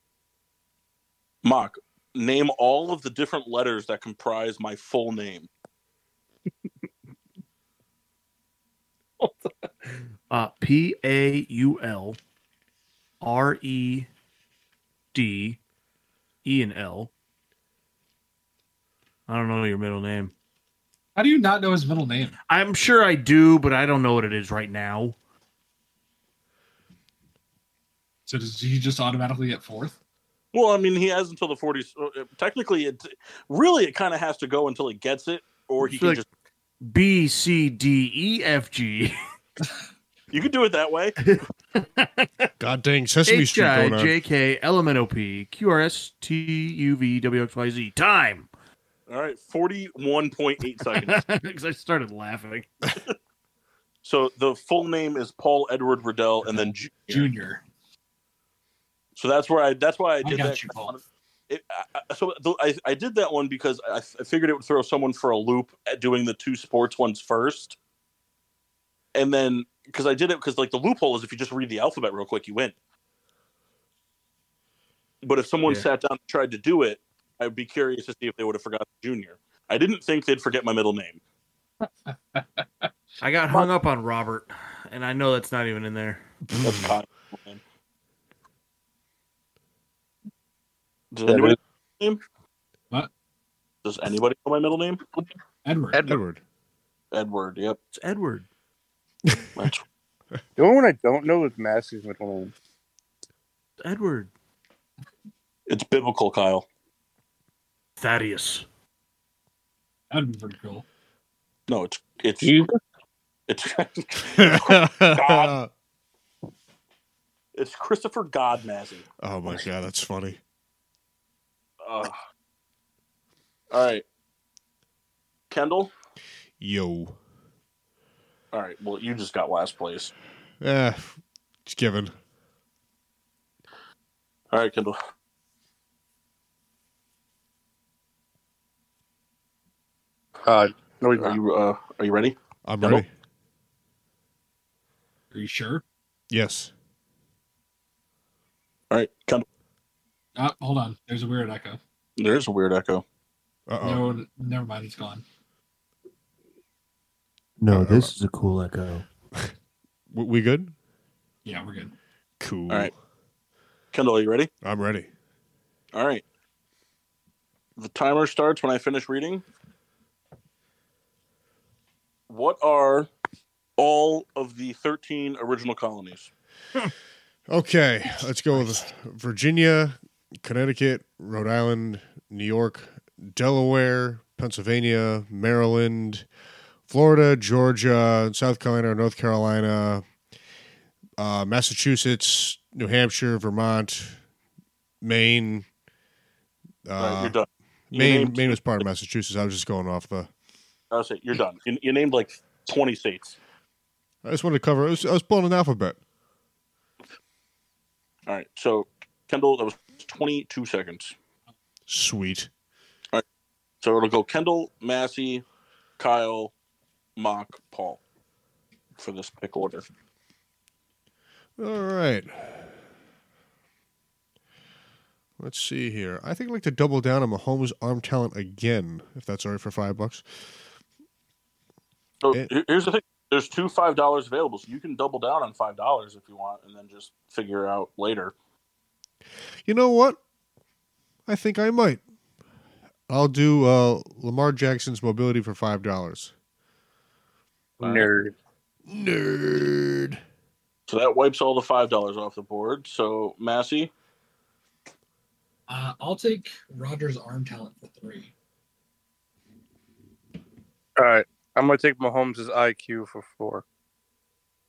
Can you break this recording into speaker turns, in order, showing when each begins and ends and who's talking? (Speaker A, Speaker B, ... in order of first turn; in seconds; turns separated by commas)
Speaker A: 1.4-5.5, Speaker B: 9.2-9.5, Speaker B: 10.3-12.2, Speaker B: 13.2-14.1, Speaker B: 15.1-15.6, Speaker B: 16.4-17.1, Speaker B: 19.3-20.3, Speaker C: 21.1-22.4, Speaker B: 22.5-25.1, Speaker C: 28.3-29.9, Speaker A: 30.5-36.2, Speaker B: 35.8-36.2, Speaker B: 36.8-39.3, Speaker A: 40.3-41.2, Speaker B: 41.2-42.5, Speaker D: 42.6-44.1, Speaker B: 43.2-48.5, Speaker A: 49.1-51.2, Speaker B: 50.9-52.7, Speaker A: 54.0-57.3, Speaker C: 56.4-57.6, Speaker A: 59.1-67.8, Speaker C: 60.2-61.0, Speaker A: 69.1-72.7, Speaker A: 75.2-81.2, Speaker C: 81.8-82.9, Speaker B: 83.2-86.2, Speaker D: 86.5-86.9, Speaker A: 86.6-87.6, Speaker A: 91.1-92.2, Speaker E: 91.3-91.5, Speaker A: 93.8-95.0, Speaker C: 95.6-96.1, Speaker D: 96.0-96.4, Speaker A: 97.1-97.8, Speaker B: 97.9-98.5, Speaker D: 99.2-99.7, Speaker A: 99.5-99.8, Speaker E: 100.6-102.5, Speaker B: 103.8-104.3, Speaker A: 105.7-106.7, Speaker B: 108.0-108.6, Speaker C: 110.1-110.8, Speaker A: 111.7-112.6, Speaker E: 112.4-112.8, Speaker A: 113.5-115.5, Speaker D: 114.3-115.7, Speaker A: 117.5-119.0, Speaker D: 119.2-120.4, Speaker A: 121.8-122.2, Speaker A: 123.7-124.0, Speaker A: 125.5-125.9, Speaker D: 126.6-127.2, Speaker A: 128.5-130.1, Speaker D: 130.6-132.1, Speaker A: 134.5-135.0, Speaker E: 140.4-141.4, Speaker A: 141.1-143.0, Speaker D: 142.6-143.1, Speaker C: 145.3-145.8, Speaker D: 146.3-146.7, Speaker A: 148.9-149.4, Speaker C: 150.3-151.8, Speaker A: 152.2-153.0, Speaker D: 153.7-154.1, Speaker C: 153.8-155.2, Speaker B: 157.6-159.1, Speaker D: 157.7-158.1, Speaker D: 160.1-160.7, Speaker C: 161.4-161.9, Speaker D: 162.4-162.9, Speaker A: 163.9-164.5, Speaker D: 164.6-165.1, Speaker A: 165.9-166.2, Speaker A: 167.8-169.4, Speaker A: 172.3-173.1, Speaker A: 173.8-176.3, Speaker D: 177.5-186.3, Speaker D: 186.9-190.0, Speaker D: 191.2-194.2, Speaker D: 195.0-195.7, Speaker D: 196.8-197.3, Speaker A: 197.0-198.6, Speaker D: 197.9-200.3, Speaker A: 200.9-203.4, Speaker D: 204.2-206.0, Speaker A: 208.3-211.1, Speaker D: 211.9-212.5, Speaker A: 213.8-215.4, Speaker A: 216.0-216.5, Speaker A: 217.2-218.0, Speaker A: 219.0-219.8, Speaker D: 221.6-222.7, Speaker D: 225.4-230.2, Speaker A: 232.2-238.3, Speaker D: 239.7-240.2, Speaker D: 241.2-242.0, Speaker D: 243.1-246.3, Speaker E: 247.8-248.3, Speaker A: 247.8-248.1, Speaker D: 248.9-250.2, Speaker A: 250.9-253.9, Speaker C: 255.7-258.3, Speaker E: 261.0-263.6